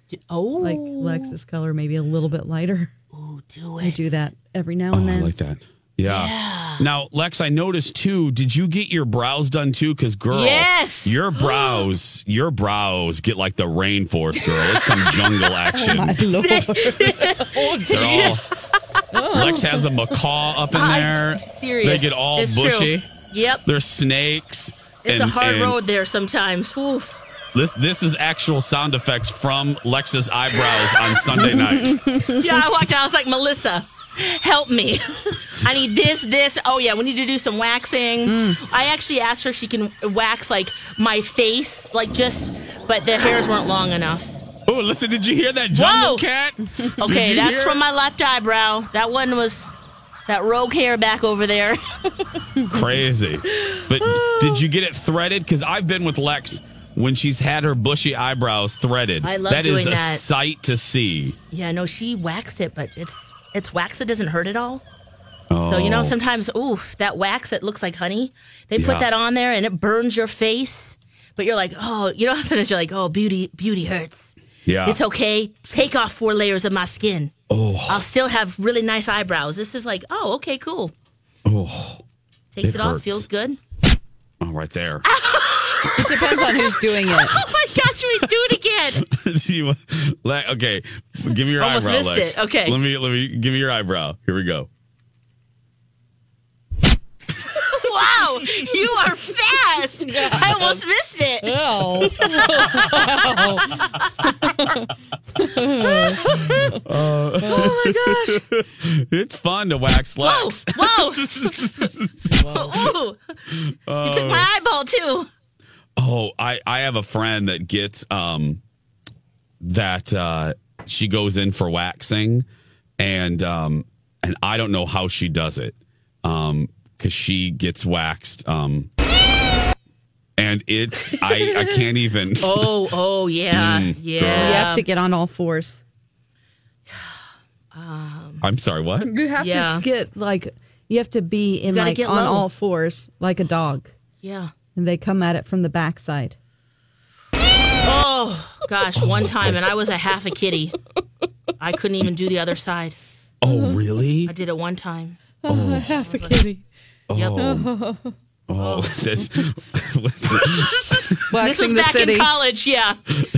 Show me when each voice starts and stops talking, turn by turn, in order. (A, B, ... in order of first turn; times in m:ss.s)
0:00.3-0:01.3 A
0:00.6-0:02.9 B
0:03.1-0:04.2 A
0:03.8-0:05.3 B
0:04.9-0:16.2 C
0:06.0-0:06.8 A
0:10.3-0:11.8 A
0:14.4-0:19.0 A
0:15.7-0:18.2 B
0:17.9-0:18.4 C
0:19.1-0:20.2 B
0:19.3-0:23.1 C
0:20.7-0:23.6 A
0:23.6-0:25.8 C
0:25.0-0:27.2 A
0:27.5-0:32.0 C
0:30.7-0:31.1 A
0:31.3-0:32.4 B
0:32.3-0:44.4 A
0:38.3-0:38.6 B
0:44.7-0:47.8 C
0:45.7-0:46.2 A
0:47.0-0:49.8 A
0:50.3-0:52.1 A
0:52.7-1:01.4 C
0:59.2-1:00.2 A
1:01.5-1:04.8 A
1:05.5-1:06.1 C
1:05.6-1:17.3 A
1:08.8-1:09.1 C
1:14.6-1:15.0 C
1:17.5-1:18.0 C
1:17.9-1:20.9 A
1:21.4-1:22.0 C
1:22.5-1:23.6 A
1:22.6-1:23.2 C
1:24.4-1:25.0 C
1:25.0-1:29.0 A
1:26.0-1:27.4 B
1:29.0-1:34.7 C
1:31.6-1:32.8 A
1:37.5-1:43.9 A
1:40.0-1:40.8 B
1:41.4-1:43.8 B
1:44.4-1:46.8 B
1:45.8-1:46.7 A
1:46.6-1:51.9 C
1:47.4-1:47.7 B
1:47.4-1:48.4 A
1:50.2-1:53.2 A
1:53.5-1:54.5 C
1:54.0-1:55.3 A
1:56.0-1:58.6 C
1:59.6-2:02.4 C
2:03.0-2:08.9 C
2:10.4-2:12.8 C
2:12.4-2:14.8 A
2:13.5-2:14.7 C
2:14.3-2:15.8 B
2:17.7-2:18.4 A
2:18.4-2:19.1 C
2:19.0-2:23.9 B
2:19.4-2:19.8 A
2:21.7-2:22.5 A
2:24.2-2:24.5 A
2:24.8-2:26.4 B
2:27.8-2:30.8 A
2:29.0-2:29.6 C
2:31.6-2:33.0 A
2:33.4-2:34.3 C
2:33.4-2:33.8 B
2:34.2-2:35.4 A
2:35.4-2:36.6 B
2:35.5-2:35.9 C
2:35.9-2:36.4 A
2:37.1-2:37.7 C
2:37.1-2:37.4 A
2:37.3-2:38.1 B
2:38.5-2:41.2 C
2:38.6-2:39.0 A
2:40.4-2:43.0 A
2:41.3-2:42.3 B